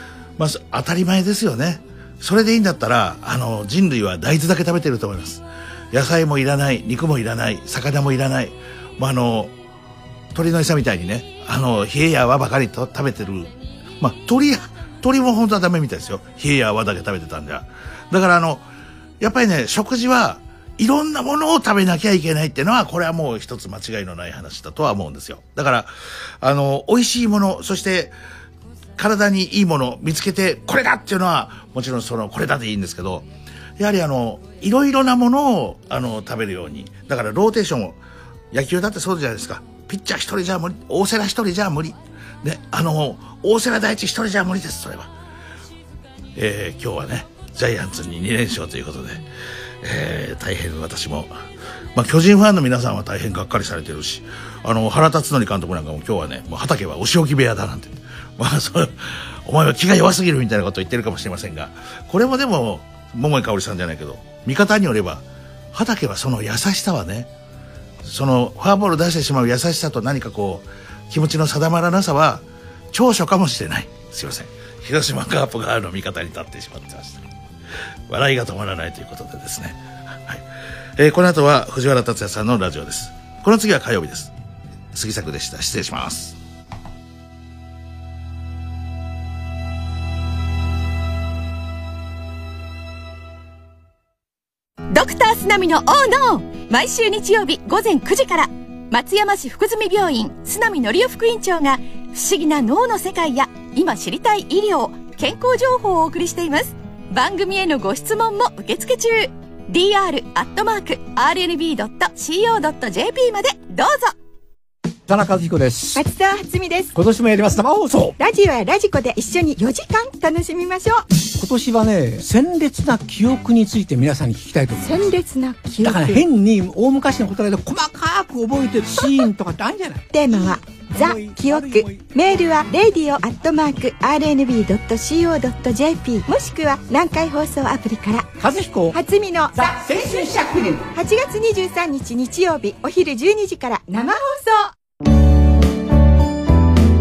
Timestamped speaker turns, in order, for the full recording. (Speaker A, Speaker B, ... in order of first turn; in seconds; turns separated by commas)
Speaker A: 0.4-9.5, Speaker A: 10.3-18.6, Speaker A: 19.2-28.1, Speaker A: 29.0-33.2, Speaker A: 33.8-38.0, Speaker A: 38.5-45.1, Speaker A: 46.4-49.2, Speaker A: 49.8-51.3, Speaker A: 51.9-67.3, Speaker A: 68.0-77.2, Speaker A: 78.1-80.4, Speaker A: 81.0-84.3, Speaker A: 84.9-86.4, Speaker B: 94.9-114.2, Speaker C: 115.1-116.0, Speaker D: 115.9-116.9, Speaker C: 116.9-118.1, Speaker D: 118.2-121.0, Speaker C: 121.3-125.0, Speaker D: 124.8-126.2, Speaker C: 125.8-132.1, Speaker D: 130.1-138.3, Speaker C: 138.4-138.9, Speaker D: 138.9-140.3, Speaker C: 139.7-140.5, Speaker D: 140.9-144.7